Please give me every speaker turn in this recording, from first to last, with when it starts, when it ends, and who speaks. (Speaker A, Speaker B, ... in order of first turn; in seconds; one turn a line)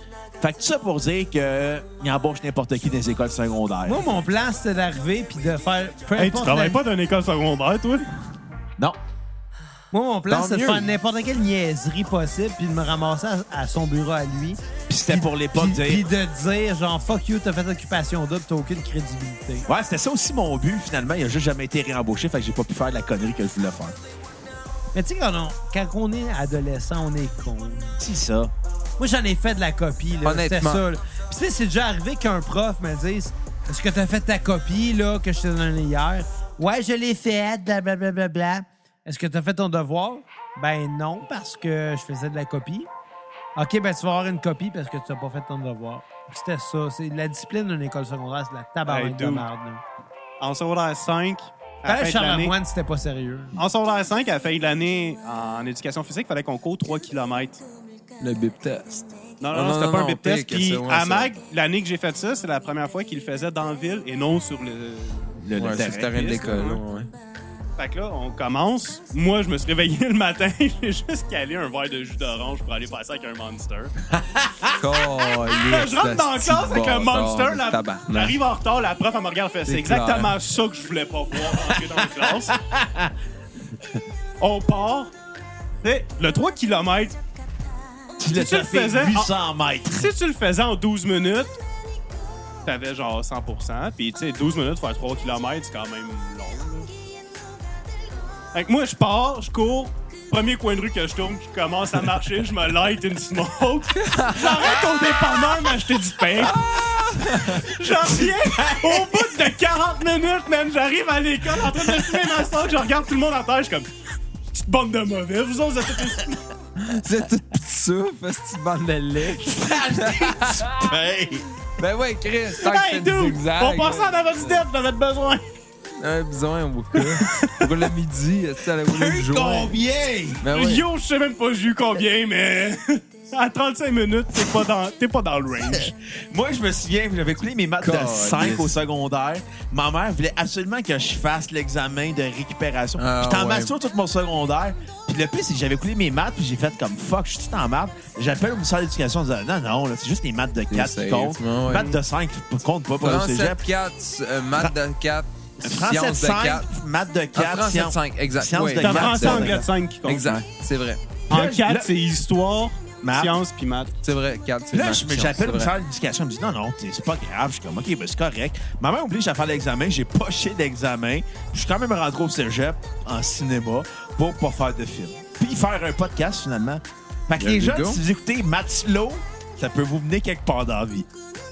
Speaker A: 0.4-4.0
Speaker B: 3.9-6.8
Speaker C: 6.2-8.1
Speaker B: 9.9-19.7
Speaker D: 10.3-10.9
Speaker A: 14.9-16.1
Speaker A: 19.7-24.0
Speaker B: 24.9-28.0
Speaker A: 28.0-28.5
Speaker B: 29.0-42.9
Speaker D: 30.2-30.8
Speaker B: 43.6-49.8
Speaker C: 48.9-49.5
Speaker C: 50.4-52.5
Speaker B: 51.9-53.6
Speaker C: 53.5-57.6
Speaker D: 58.2-61.3
Speaker C: 59.4-65.4
Speaker A: 65.4-66.2
Speaker D: 65.6-67.1
Speaker C: 66.1-66.8
Speaker C: 67.8-73.9
Speaker A: 74.2-74.8
Speaker D: 74.8-78.4
Speaker C: 75.6-82.5
Speaker D: 79.7-80.4
Speaker A: 81.9-83.1
Speaker C: 84.4-85.1
Speaker C: 85.8-87.2
Speaker A: 88.2-90.1
Speaker C: 88.3-89.3
Speaker C: 89.9-91.6
Speaker C: 92.6-96.9
Speaker C: 98.5-113.9
Speaker D: 104.0-105.1
Speaker D: 106.3-107.8
Speaker A: 108.8-109.2
Speaker C: 114.5-116.4
Speaker D: 116.8-120.9
Speaker A: 119.3-121.5
Speaker D: 121.8-124.7
Speaker C: 122.6-125.5
Speaker D: 126.0-129.8
Speaker C: 127.0-127.8
Speaker A: 128.8-130.5
Speaker D: 130.4-130.8
Speaker C: 130.5-135.9
Speaker A: 135.7-153.6
Speaker D: 137.8-138.7
Speaker D: 143.0-143.7
Speaker D: 150.7-152.0
Speaker D: 153.0-156.7
Speaker A: 155.6-159.7
Speaker D: 157.3-161.0
Speaker C: 158.8-160.4
Speaker A: 161.3-161.9
Speaker C: 161.3-163.9
Speaker A: 163.0-163.4
Speaker D: 164.0-165.7
Speaker A: 164.7-181.1
Speaker D: 177.4-178.0